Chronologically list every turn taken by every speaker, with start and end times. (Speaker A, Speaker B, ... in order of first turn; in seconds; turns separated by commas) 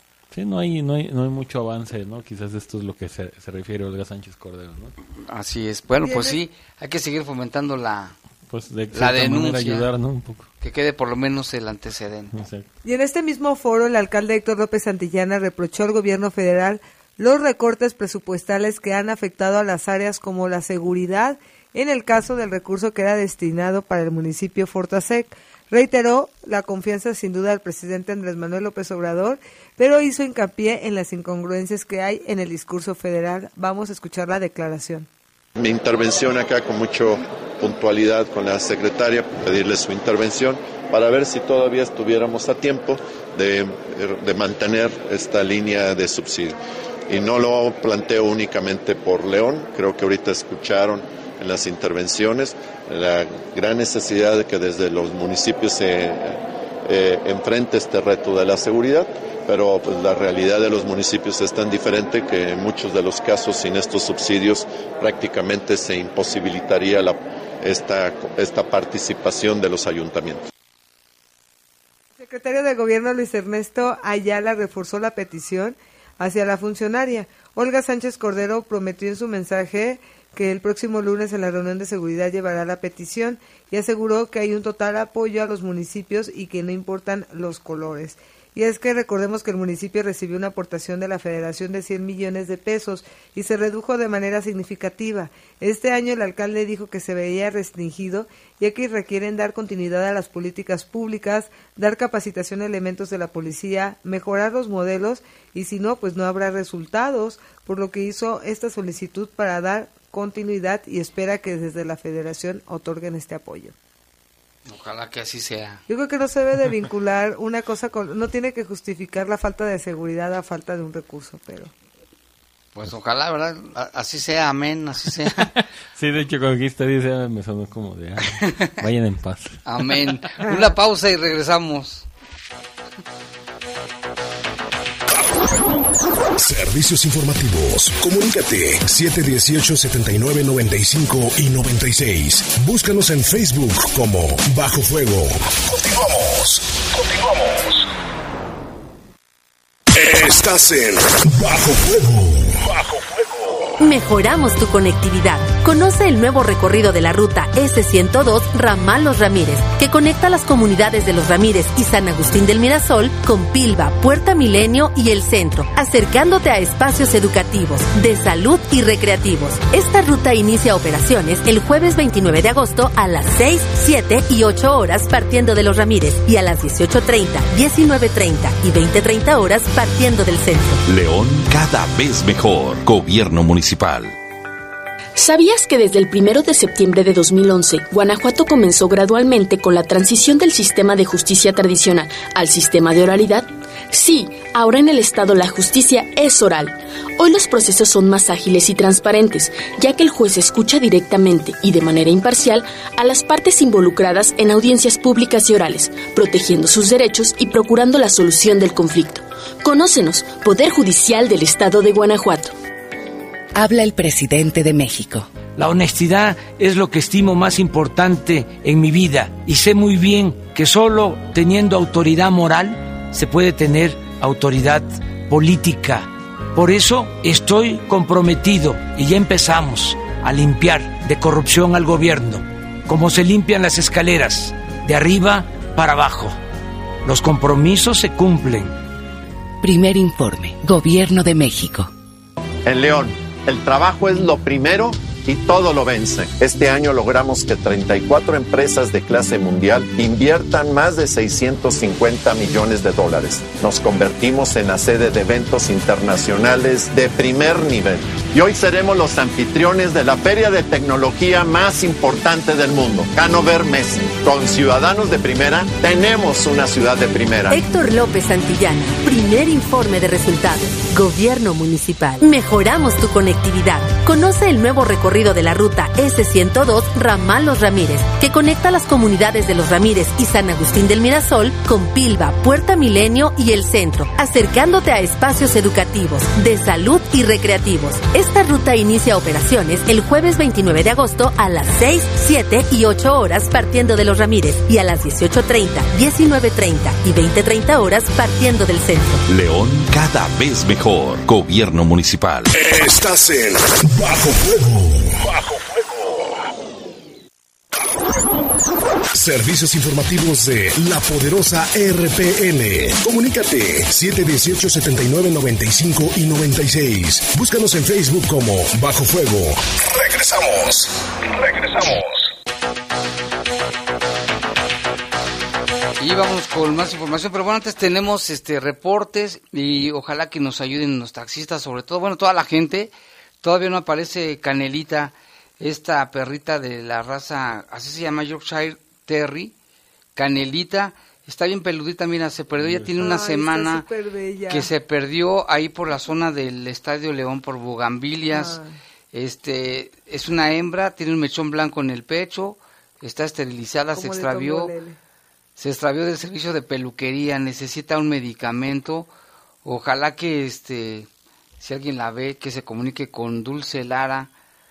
Speaker A: 0.3-4.9, Speaker B: 5.2-8.2, Speaker C: 6.0-6.4, Speaker A: 8.5-10.5, Speaker B: 8.9-9.9, Speaker B: 10.6-12.3, Speaker A: 12.3-12.7, Speaker C: 12.8-35.1, Speaker D: 35.6-70.5, Speaker C: 72.2-113.7, Speaker B: 114.7-115.8, Speaker C: 115.9-121.7, Speaker B: 122.7-125.5, Speaker A: 125.5-129.6, Speaker B: 128.4-128.7, Speaker B: 129.7-132.1, Speaker E: 136.4-147.6, Speaker E: 149.9-153.0, Speaker F: 153.8-180.8, Speaker G: 180.9-184.2, Speaker H: 185.2-212.5, Speaker I: 213.6-215.3, Speaker J: 215.4-236.4, Speaker J: 237.1-238.7, Speaker I: 239.6-241.9, Speaker D: 242.7-267.6, Speaker F: 267.5-299.2, Speaker G: 299.3-302.5, Speaker E: 302.5-305.5, Speaker E: 309.1-320.9, Speaker E: 321.7-322.0, Speaker B: 326.0-339.5, Speaker B: 340.2-343.9, Speaker A: 342.6-342.9, Speaker C: 343.0-344.7, Speaker B: 344.5-348.6, Speaker C: 348.3-348.8, Speaker B: 349.1-354.7, Speaker C: 353.9-355.0, Speaker B: 355.6-359.1, Speaker B: 359.6-361.1, Speaker B: 361.6-364.3